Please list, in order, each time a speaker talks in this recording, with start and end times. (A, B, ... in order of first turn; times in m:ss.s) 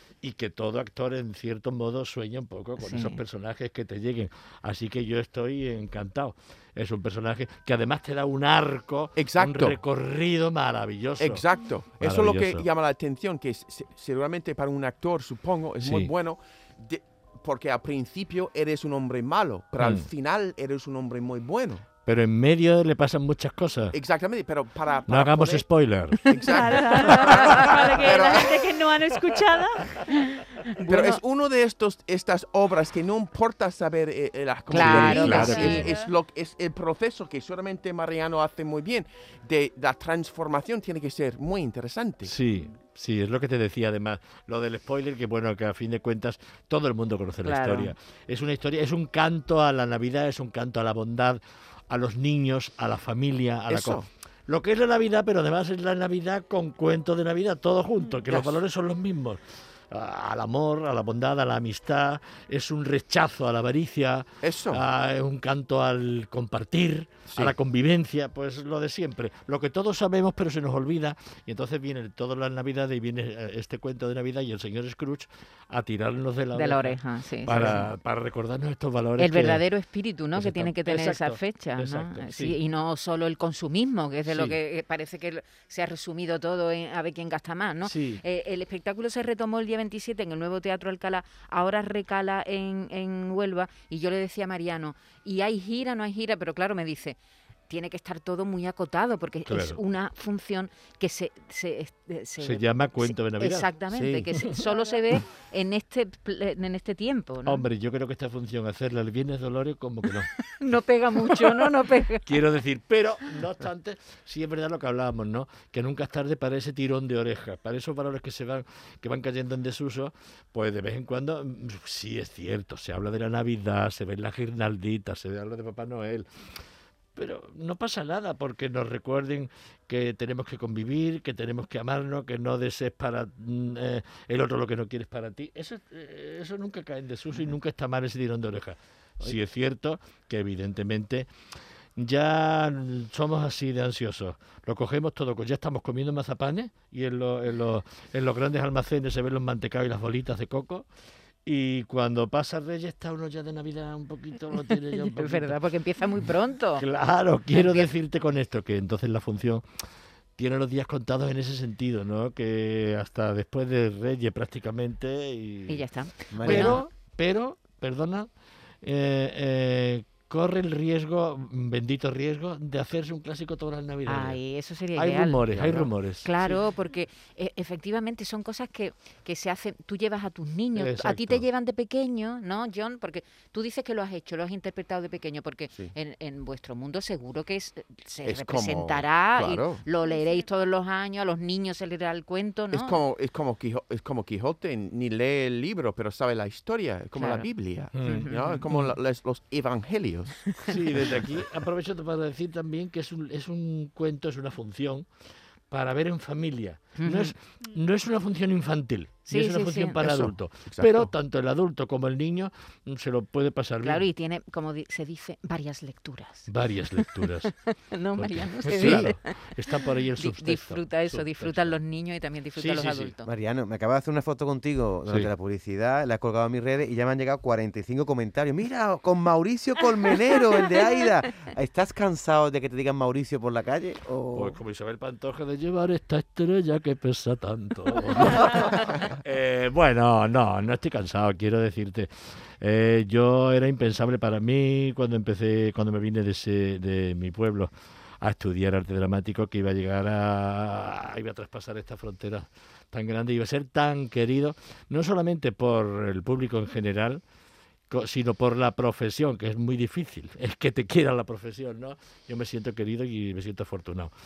0:00.2-0:11.4 A
0:02.8-0:03.2 B
0:09.2-0:09.8 C
0:11.2-0:21.8 C
0:12.0-0:12.7 A
0:15.8-0:16.1 A
0:19.8-0:20.1 A
0:22.0-0:24.0 A
0:23.9-0:25.6 C
0:25.1-0:26.3 A
0:26.3-0:28.5 C
0:26.4-0:29.9 D
0:27.0-0:27.8 A
0:30.1-0:31.2 B
0:30.9-0:42.3 C
0:34.7-0:35.9 B
0:34.8-0:35.6 A
0:35.1-0:36.1 D
0:42.2-1:19.7 A
0:47.4-0:48.0 B
0:53.7-0:54.1 C
0:58.3-0:58.6 C
1:04.4-1:04.8 C
1:07.3-1:07.6 C
1:16.6-1:17.9 B
1:19.2-1:37.2 B
1:20.3-1:22.6 A
1:24.2-1:24.6 A
1:27.8-1:28.2 A
1:37.7-1:47.7 B
1:39.5-1:39.8 A
1:42.4-1:43.7 A
1:47.4-1:50.3 A
1:50.3-1:52.3 B
1:51.2-1:51.7 A
1:52.2-2:06.3 A
2:07.2-2:21.3 A
2:22.0-2:30.9 A
2:31.4-2:35.6 A
2:34.5-2:36.8 B
2:36.8-2:39.6 A
2:37.5-2:37.9 B
2:40.4-2:45.8 A
2:45.7-2:46.9 B
2:46.3-2:46.8 E
2:46.4-2:48.3 A
2:48.8-2:54.4 A
2:54.1-3:13.0 B
2:54.9-2:56.6 A
3:00.8-3:01.5 A
3:08.2-3:09.8 C
3:10.0-3:10.4 D
3:12.7-3:20.5 C
3:17.1-3:17.5 B
3:17.9-3:18.8 A
3:18.0-3:18.4 B
3:20.7-3:25.1 A
3:25.7-3:34.1 A
3:27.0-3:27.4 B
3:29.2-3:30.0 B
3:30.0-3:31.1 C
3:33.8-3:43.3 B
3:36.5-3:37.5 A
3:38.2-3:41.8 A
3:42.6-3:43.2 A
3:43.2-3:54.6 E
3:45.1-3:45.3 A
3:54.3-4:17.2 A
4:17.9-4:24.1 A